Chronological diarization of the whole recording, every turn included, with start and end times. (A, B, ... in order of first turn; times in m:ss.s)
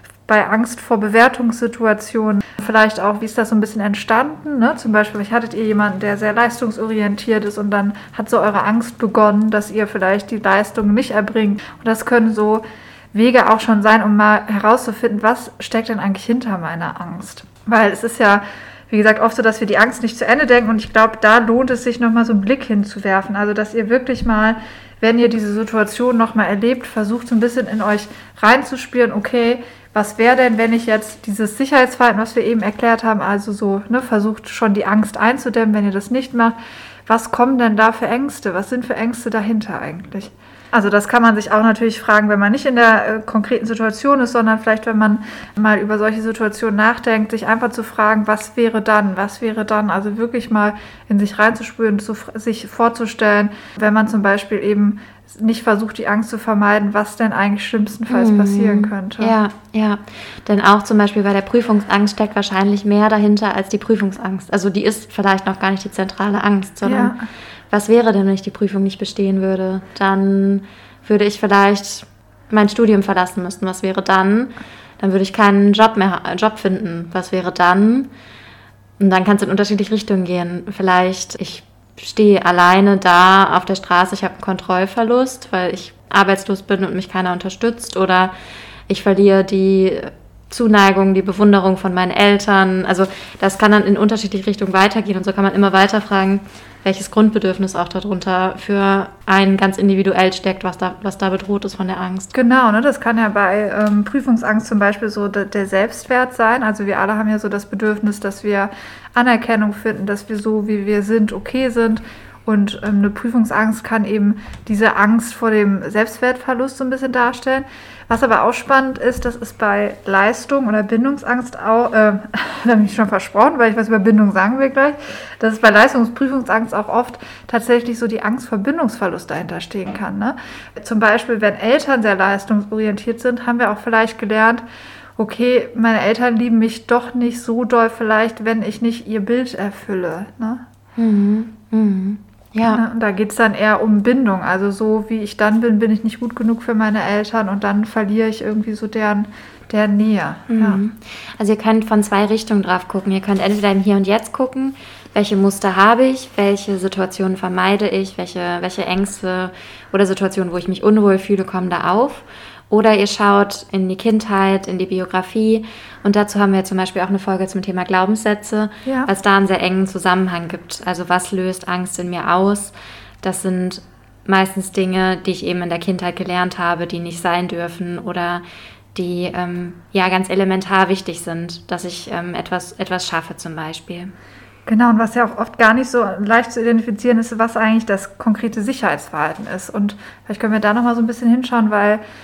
0:00.3-0:59.4 A
0:58.1-1:07.1 B
1:06.8-1:07.2 A
1:07.7-1:18.1 B
1:19.0-1:28.3 B
1:28.9-1:42.3 B
1:42.3-2:14.6 A
2:15.2-2:20.6 A
2:21.0-2:22.8 B
2:22.7-2:30.8 A
2:30.5-2:58.4 B
2:59.0-3:04.1 B
3:04.7-3:12.0 A